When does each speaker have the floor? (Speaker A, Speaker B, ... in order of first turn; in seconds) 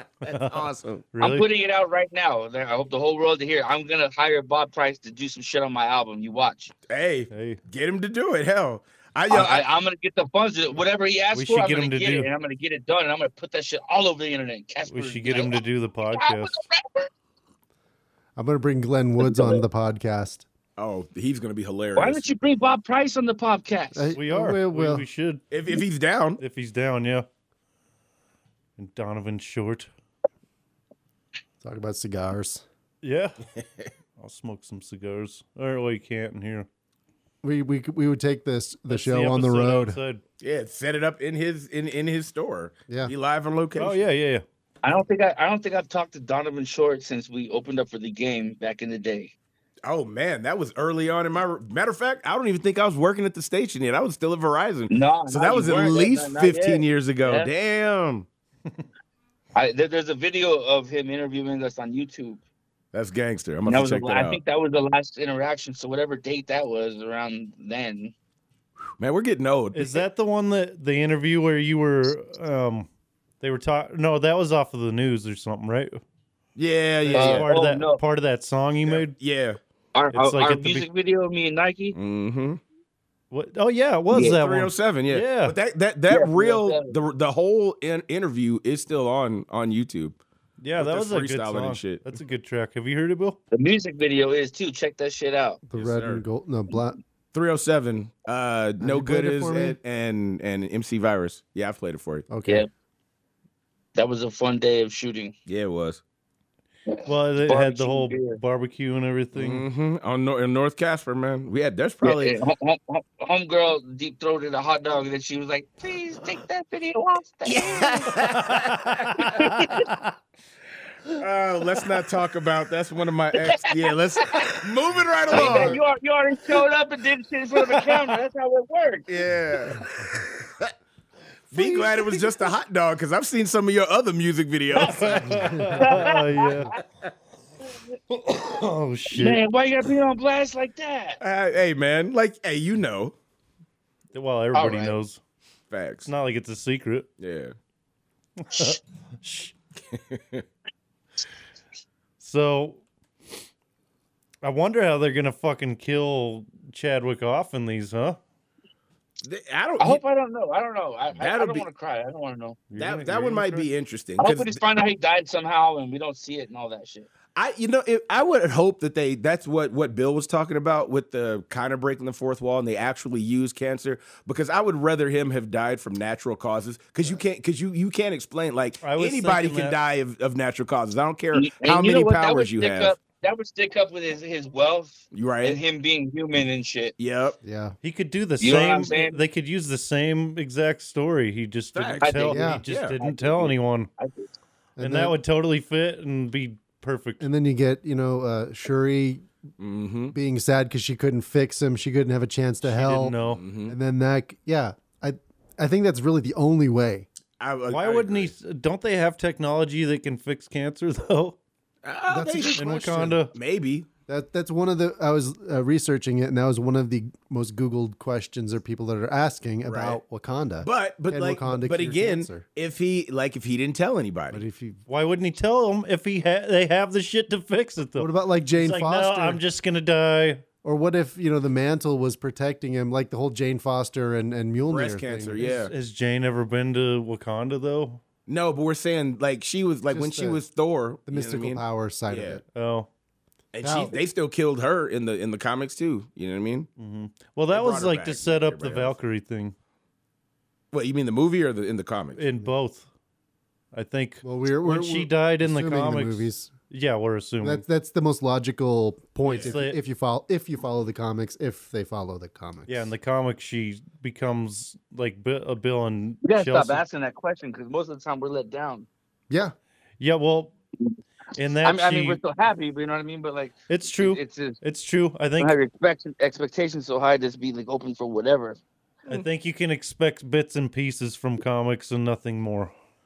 Speaker A: 0.2-1.0, 6.9-9.7, 20.8-22.2, 25.5-26.4, 40.4-44.0, 49.8-58.3, 62.9-64.4, 69.0-70.0, 76.5-77.5, 78.8-79.6, 81.9-82.6, 84.1-90.2, 90.8-92.0, 95.8-96.2, 97.3-102.2, 105.5-106.0, 109.3-112.4, 117.4-119.5, 121.1-125.8, 129.1-130.7, 131.5-136.0, 141.2-143.1, 145.7-146.1, 147.2-147.5, 149.9-150.4, 159.2-160.0, 161.1-161.6, 162.8-164.6, 167.3-182.9, 185.1-185.6, 187.0-187.4, 191.7-193.5, 199.6-200.1, 203.2-203.7, 207.4-208.3, 211.8-213.9, 219.6-220.0, 220.6-224.4, 234.7-235.7, 238.3-242.4, 243.5-246.7, 247.5-248.9, 250.7-252.2, 259.2-259.6
Speaker B: 0.2-1.5, 7.3-7.6, 11.3-12.3, 14.9-16.6, 24.1-25.7, 26.4-27.3, 28.8-29.9, 33.0-33.4, 34.2-36.7, 38.9-40.2, 43.8-44.4, 69.7-72.9, 73.4-76.0, 77.0-79.1, 80.1-80.9, 83.3-85.5, 90.6-93.4, 107.0-109.6, 118.2-120.0, 134.8-136.7, 138.1-139.4, 144.1-145.2, 146.1-147.1, 148.4-149.5, 152.2-152.8, 154.4-158.2, 162.7-163.7, 178.8-179.8, 187.8-193.9, 194.8-197.2, 202.6-203.4, 207.7-211.4, 212.6-213.3, 224.9-230.4, 235.4-238.0, 242.6-242.9, 246.8-249.6, 252.2-252.9, 253.7-257.6, 259.3-259.8, 262.7-266.8, 270.0-270.5, 271.3-272.2, 273.7-275.6, 279.1-282.7
Speaker C: 1.2-6.7, 9.3-15.6, 16.1-17.1, 19.2-19.6, 21.9-24.1, 44.8-49.3, 54.9-57.5, 59.5-62.4, 63.7-68.1, 77.1-78.0, 79.9-81.9, 84.1-84.4, 86.1-87.0, 93.5-95.6, 103.9-105.3, 106.9-108.4, 112.0-118.1, 119.2-119.9, 123.4-124.4, 125.3-129.1, 131.5-132.2, 135.7-136.8, 139.2-141.2, 144.5-145.0, 159.8-162.6, 164.2-167.1, 181.3-186.9, 188.4-189.2, 192.0-192.4, 193.0-194.3, 266.2-268.9, 271.6-274.6, 275.4-278.6
Speaker D: 18.4-20.4, 23.9-25.1, 31.6-32.6, 37.4-40.0, 95.7-97.0, 98.8-99.8, 102.3-102.6, 125.4-125.8, 135.3-135.9, 187.4-187.8, 192.3-192.6, 194.8-195.2, 197.2-199.2, 200.1-207.1, 212.1-213.2, 214.1-222.4, 224.3-224.8, 227.9-229.4, 230.6-235.4, 239.9-240.4, 241.1-242.4, 243.6-243.9, 254.2-256.5, 257.4-262.9, 269.3-269.6